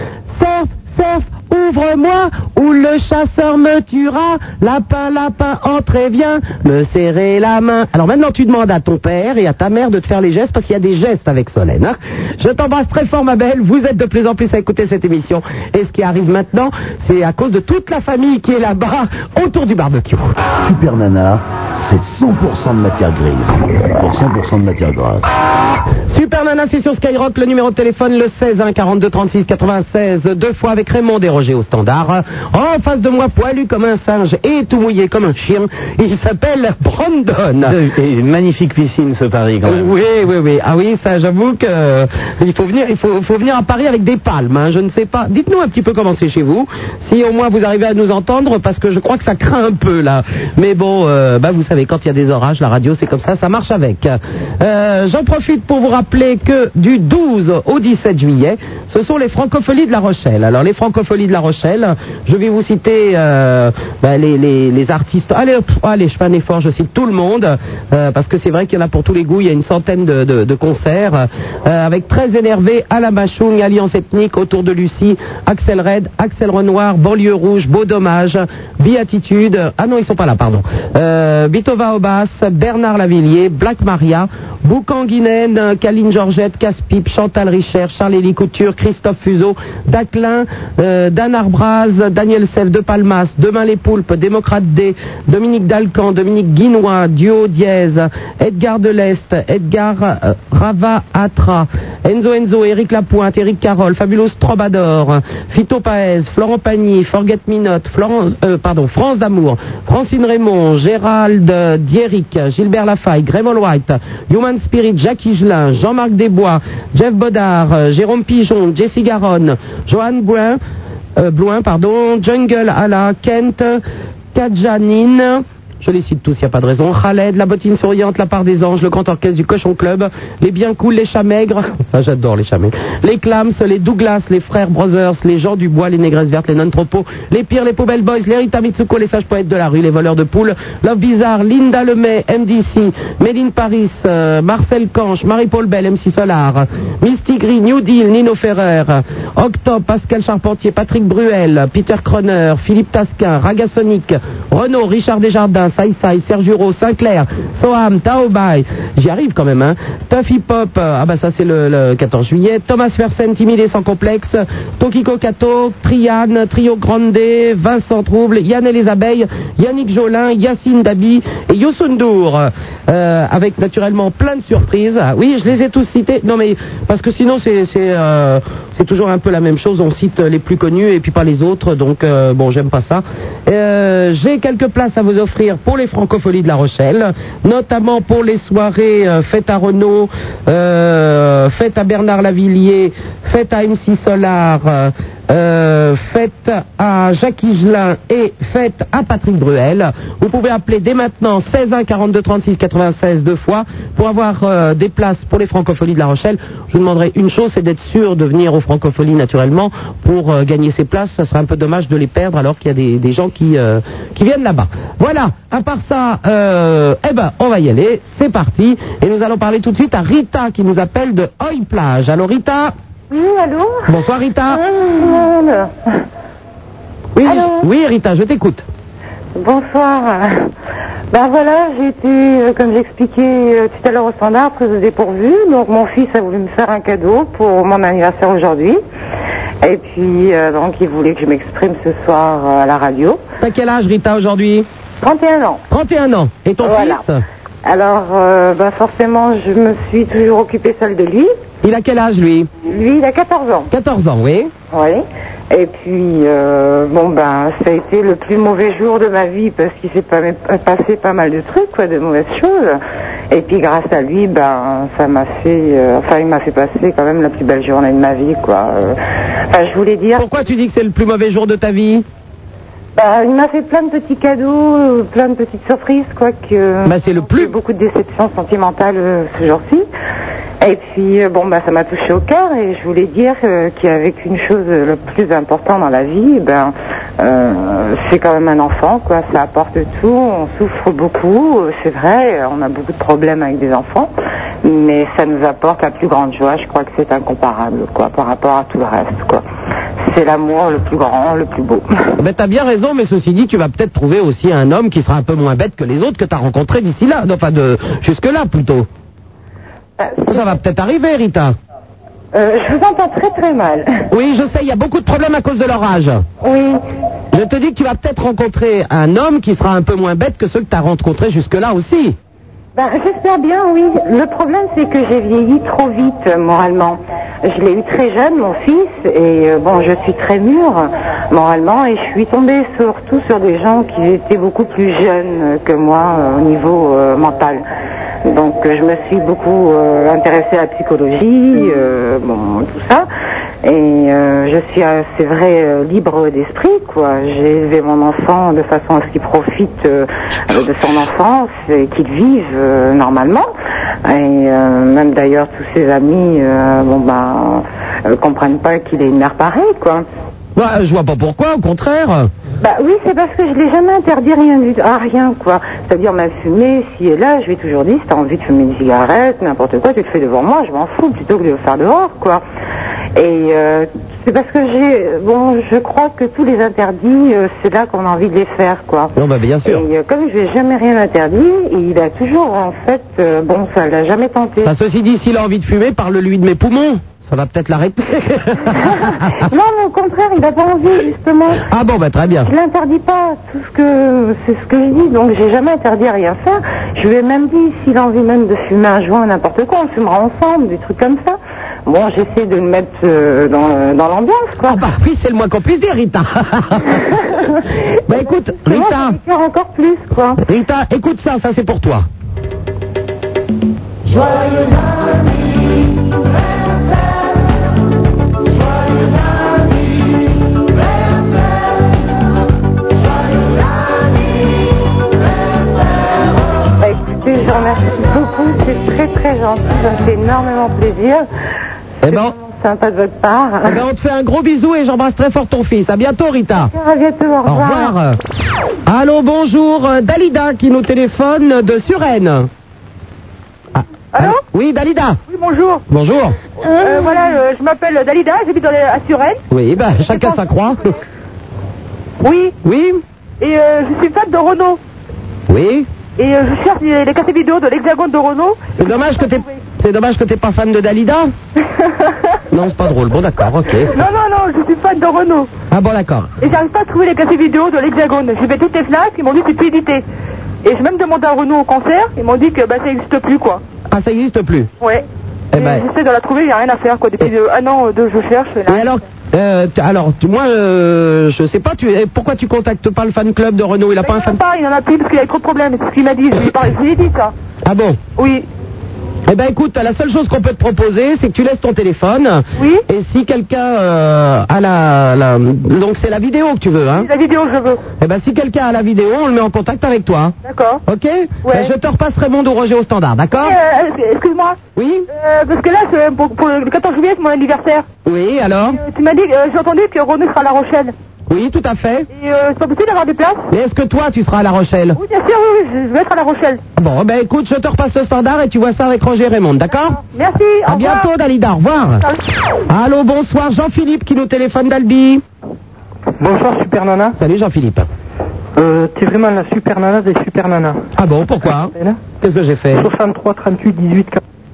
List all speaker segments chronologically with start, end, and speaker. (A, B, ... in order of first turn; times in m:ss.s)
0:00.3-0:20.3 A
0:20.6-0:25.3 B
0:26.1-0:37.8 A
0:37.6-0:39.9 C
0:39.6-2:00.6 A
2:01.2-2:03.8 A
2:04.3-3:42.7 A
3:43.1-3:43.9 D
3:43.9-3:44.6 A
3:44.6-3:46.0 D
3:47.2-3:48.7 A
3:47.2-3:47.6 D
3:49.4-3:50.5 D
3:51.1-3:58.8 D
3:59.6-4:03.2 D
4:03.4-4:04.7 A
4:05.0-4:05.6 D
4:05.7-4:07.2 A
4:06.6-4:07.0 D
4:07.6-4:11.3 D
4:11.6-4:12.5 A
4:12.6-4:13.7 D
4:13.7-4:14.5 A
4:14.7-4:29.0 D
4:29.5-4:30.4 D
4:30.2-4:32.1 A
4:33.0-4:39.9 D
4:36.9-4:37.5 A
4:40.6-4:54.1 D
4:54.6-4:59.4 D
5:00.1-5:01.9 D
5:02.2-5:08.9 A
5:10.0-5:10.5 D
5:10.3-5:11.5 A
5:12.3-5:14.0 D
5:14.1-5:16.2 A
5:16.4-5:16.8 D
5:17.3-5:22.2 A
5:22.8-5:37.6 D
5:38.2-5:43.1 D
5:43.6-5:53.5 D
5:54.0-6:00.0 D
6:00.6-6:02.3 A
6:02.6-6:12.4 D
6:13.2-6:19.1 D
6:19.2-6:19.8 A
6:19.6-6:24.7 D
6:24.6-6:29.5 A
6:28.7-6:31.7 D
6:31.7-6:32.5 A
6:32.4-6:44.8 D
6:44.7-6:47.1 A
6:47.1-6:50.4 D
6:48.1-6:49.2 A
6:50.4-6:52.1 A
7:06.8-7:11.3 D
7:12.0-7:12.3 A
7:12.1-7:13.8 D
7:13.7-7:16.7 A
7:16.6-7:18.0 D
7:17.5-7:18.2 A
7:18.9-7:22.5 A
7:23.8-7:25.2 A
7:24.1-7:24.4 E
7:25.3-7:25.8 E
7:25.9-7:26.4 A
7:26.7-7:29.4 E
7:29.5-7:30.9 A
7:30.1-7:30.4 E
7:32.2-7:32.6 E
7:32.6-7:33.0 A
7:33.4-7:34.8 E
7:35.5-7:35.9 A
7:36.2-7:39.6 E
7:38.8-7:41.3 A
7:41.8-7:42.1 E
7:42.5-7:44.0 A
7:43.9-7:45.5 E
7:45.7-7:46.3 A
7:46.4-7:50.0 E
7:50.6-7:53.6 E
7:53.9-7:54.7 A
7:54.8-7:58.9 E
7:55.5-7:55.9 A
7:58.7-8:04.4 A
8:04.0-8:07.3 E
8:07.6-8:08.0 A
8:08.2-8:08.5 E
8:09.3-8:17.1 A
8:12.6-8:12.8 E
8:17.0-8:17.8 E
8:18.0-8:20.4 A
8:20.4-8:20.8 E
8:20.9-8:23.6 A
8:21.4-8:21.7 E
8:23.3-8:27.9 E
8:24.8-8:25.1 A
8:28.0-8:28.8 A
8:28.7-8:30.9 E
8:31.3-8:32.1 A
8:32.1-8:33.5 E
8:33.5-8:35.0 A
8:35.0-8:36.6 E
8:36.8-8:40.0 A
8:39.8-8:41.1 E
8:40.7-8:42.1 A
8:42.7-8:45.2 A
8:46.2-8:47.2 F
8:47.2-8:47.9 A
8:48.6-8:50.9 F
8:51.0-8:52.9 A
8:51.4-8:52.0 F
8:52.7-8:54.2 F